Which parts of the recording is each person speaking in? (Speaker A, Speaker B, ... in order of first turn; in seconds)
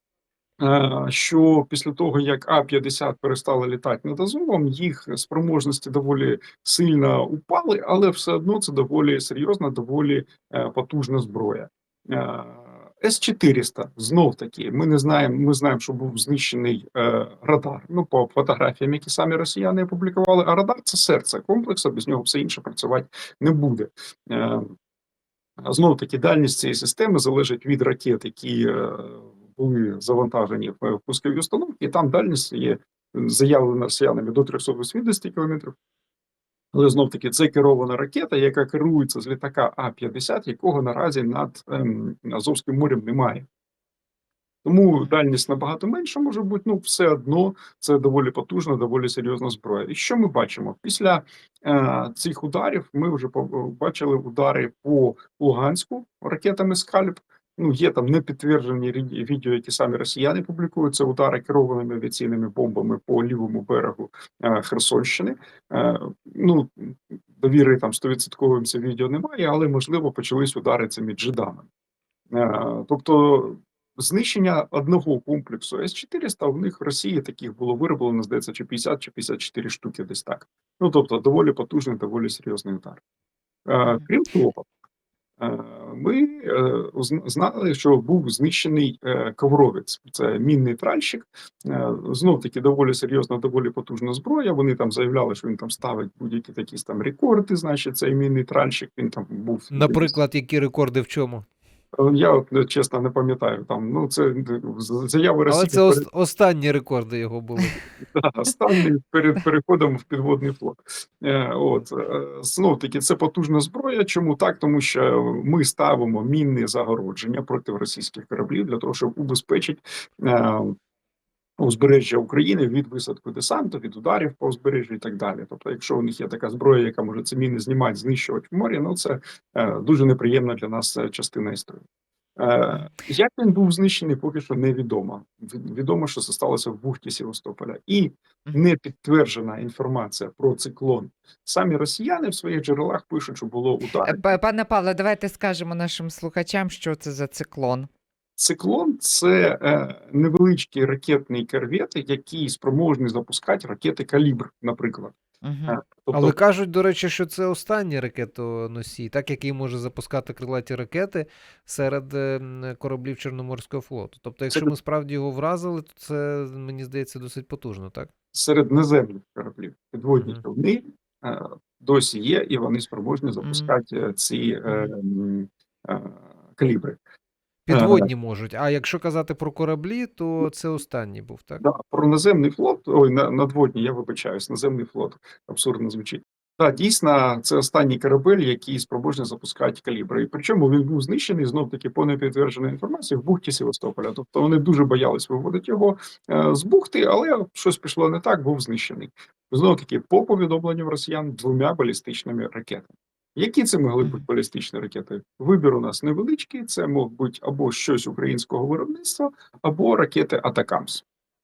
Speaker A: 0.6-24.7, 25.6-35.7, 36.7-43.5, 44.6-71.7, 72.3-83.0, 83.7-84.7, 85.4-100.1, 102.0-106.0, 108.0-120.8, 121.6-131.8, 132.4-144.2, 148.4-155.2, 155.7-156.4, 168.3-177.0, 177.7-178.1, 181.6-211.0
Speaker B: 99.7-101.5, 105.5-107.8, 156.1-168.1, 177.7-181.6
Speaker C: 144.0-147.9, 155.4-155.8, 173.4-173.7